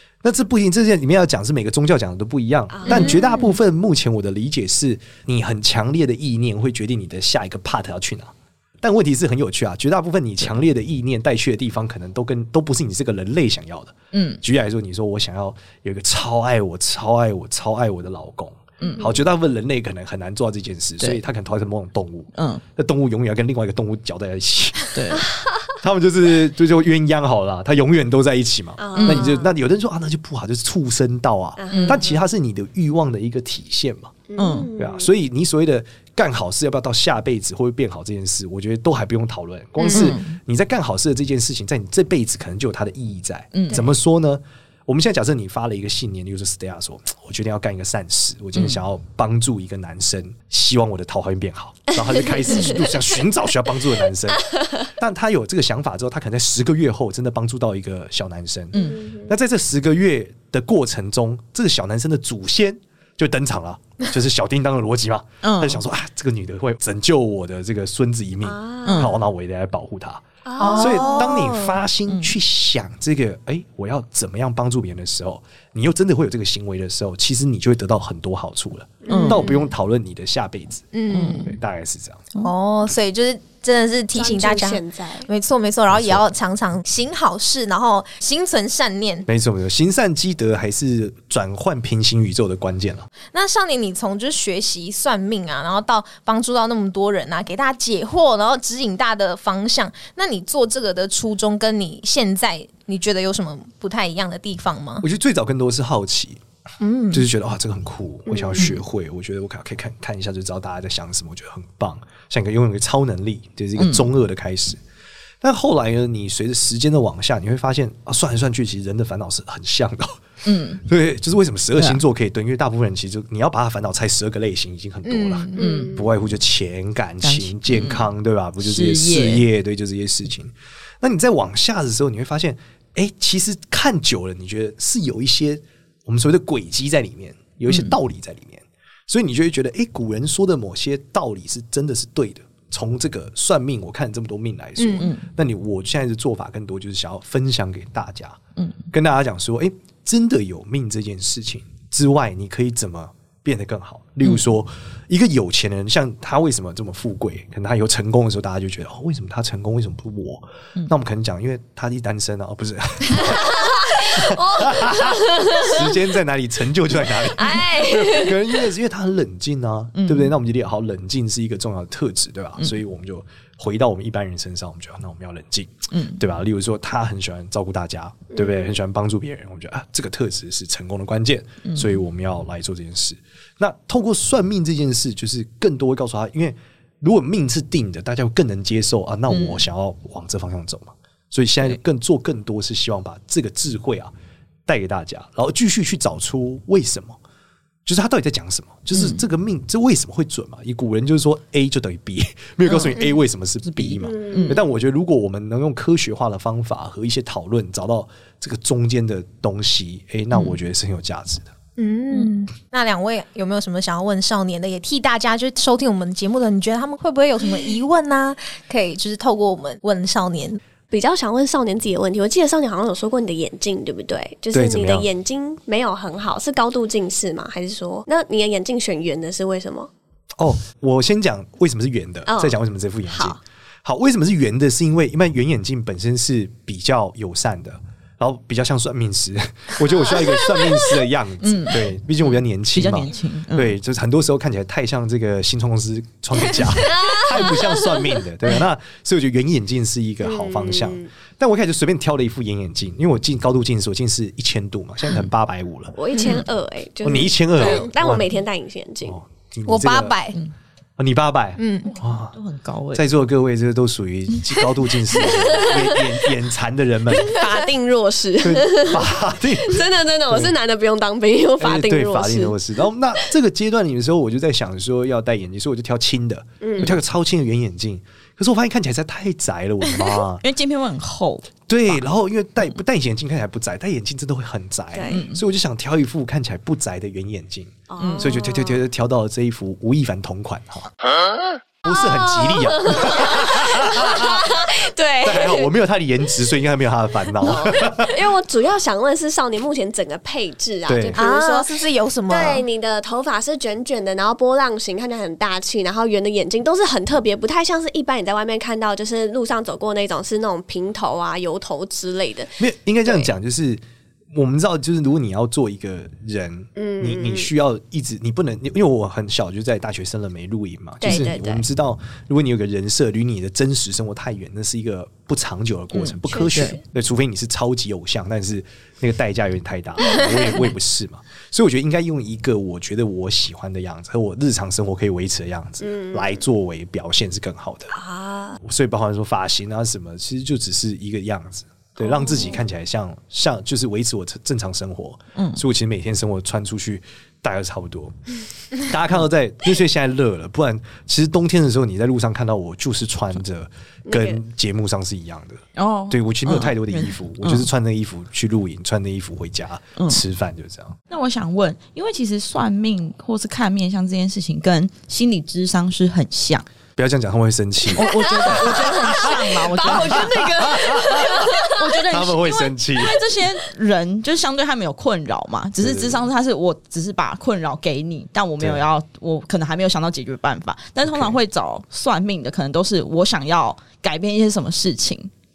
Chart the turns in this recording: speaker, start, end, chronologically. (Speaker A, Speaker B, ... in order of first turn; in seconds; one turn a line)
Speaker A: 0.2-25.0
Speaker B: 2.7-3.3
Speaker C: 2.9-3.2
Speaker D: 14.1-14.4
Speaker D: 18.8-19.1
Speaker B: 18.9-19.2
Speaker D: 22.4-22.6
Speaker D: 24.9-25.3
Speaker B: 25.2-25.7
Speaker A: 25.8-34.2
Speaker B: 28.8-29.6
Speaker D: 29.0-29.3
Speaker B: 31.6-32.1
Speaker D: 31.7-32.0
Speaker B: 34.3-35.1
Speaker D: 34.4-34.7
Speaker A: 34.8-70.2
Speaker C: 39.8-40.1
Speaker D: 39.9-40.4
Speaker D: 43.5-43.8
Speaker B: 52.1-53.0
Speaker D: 52.5-52.8
Speaker D: 58.7-59.0
Speaker B: 58.7-59.3
Speaker D: 65.4-65.8
Speaker B: 68.4-69.2
Speaker D: 68.8-69.2
Speaker B: 70.5-71.4
Speaker D: 70.6-71.4
Speaker C: 70.6-71.6
Speaker A: 70.8-80.9
Speaker D: 72.1-72.3
Speaker B: 79.0-79.7
Speaker D: 79.1-79.5
Speaker C: 80.9-81.5
Speaker D: 81.1-81.5
Speaker A: 81.5-82.2
Speaker C: 82.4-89.3
Speaker B: 84.1-85.3
Speaker A: 85.9-86.2
Speaker A: 89.3-93.1
Speaker C: 93.3-105.0
Speaker A: 105.0-106.4
Speaker C: 106.8-107.3
Speaker A: 107.1-114.8
Speaker B: 108.3-108.7
Speaker D: 113.8-114.1
Speaker A: 115.4-120.2
Speaker D: 120.5-120.8
Speaker A: 120.8-148.4
Speaker C: 125.0-125.7
Speaker B: 125.6-126.1
Speaker D: 125.6-126.0
Speaker D: 127.2-128.1
Speaker D: 128.6-129.4
Speaker D: 137.7-137.9
Speaker C: 144.8-145.1
Speaker A: 148.9-194.1
Speaker B: 163.2-166.0
Speaker B: 167.0-168.6
Speaker D: 169.9-170.3
Speaker D: 175.9-176.2
Speaker B: 178.3-178.7
Speaker D: 181.7-181.9
Speaker D: 189.3-189.6
Speaker A: 194.7-197.2
Speaker A: 197.9-211.5
Speaker D: 198.9-199.2
Speaker D: 202.7-203.1
Speaker D: 203.7-204.6
Speaker B: 204.1-204.6
Speaker C: 211.8-220.6
Speaker B: 220.9-229.9
Speaker A: 224.5-225.1
Speaker A: 230.4-256.0
Speaker B: 232.3-232.6
Speaker B: 233.1-233.4
Speaker B: 239.9-240.8
Speaker D: 241.4-241.8
Speaker D: 242.7-243.8
Speaker B: 246.6-248.1
Speaker B: 250.2-251.1
Speaker B: 255.9-259.2
Speaker D: 256.2-256.4
Speaker A: 257.0-258.3
Speaker A: 259.1-260.2
Speaker C: 259.7-260.4
Speaker A: 261.0-262.4
Speaker C: 261.6-261.9
Speaker D: 262.3-263.1
Speaker A: 262.9-267.4
Speaker B: 265.3-266.1
Speaker B: 267.1-272.6
Speaker A: 268.4-270.5
Speaker A: 271.6-280.4
Speaker B: 276.6-277.0
Speaker D: 280.4-282.0
Speaker A: 281.7-290.9
Speaker B: 284.9-285.2
Speaker D: 285.1-285.4
Speaker B: 287.9-288.8
Speaker D: 288.0-288.4
Speaker A: 291.8-294.4
Speaker B: 291.9-295.7
Speaker A: 295.2-298.2
Speaker B: 297.4-313.3
Speaker A: 300.9-301.2
Speaker C: 301.2-302.6
Speaker A: 312.6-338.0
Speaker B: 316.8-317.5
Speaker B: 321.0-321.7
Speaker D: 321.0-321.3
Speaker D: 325.9-326.8
Speaker B: 326.3-326.8
Speaker B: 335.8-336.3
Speaker B: 337.9-338.6
Speaker A: 338.6-348.2
Speaker B: 342.0-342.6
Speaker D: 345.4-345.6
Speaker A: 348.7-361.0
Speaker B: 354.1-354.4
Speaker D: 355.8-357.7
Speaker D: 361.1-366.7
Speaker A: 367.0-371.3
Speaker D: 367.9-385.3
Speaker B: 368.2-372.0
Speaker A: 372.1-373.2
Speaker A: 375.8-376.2
Speaker A: 381.1-381.4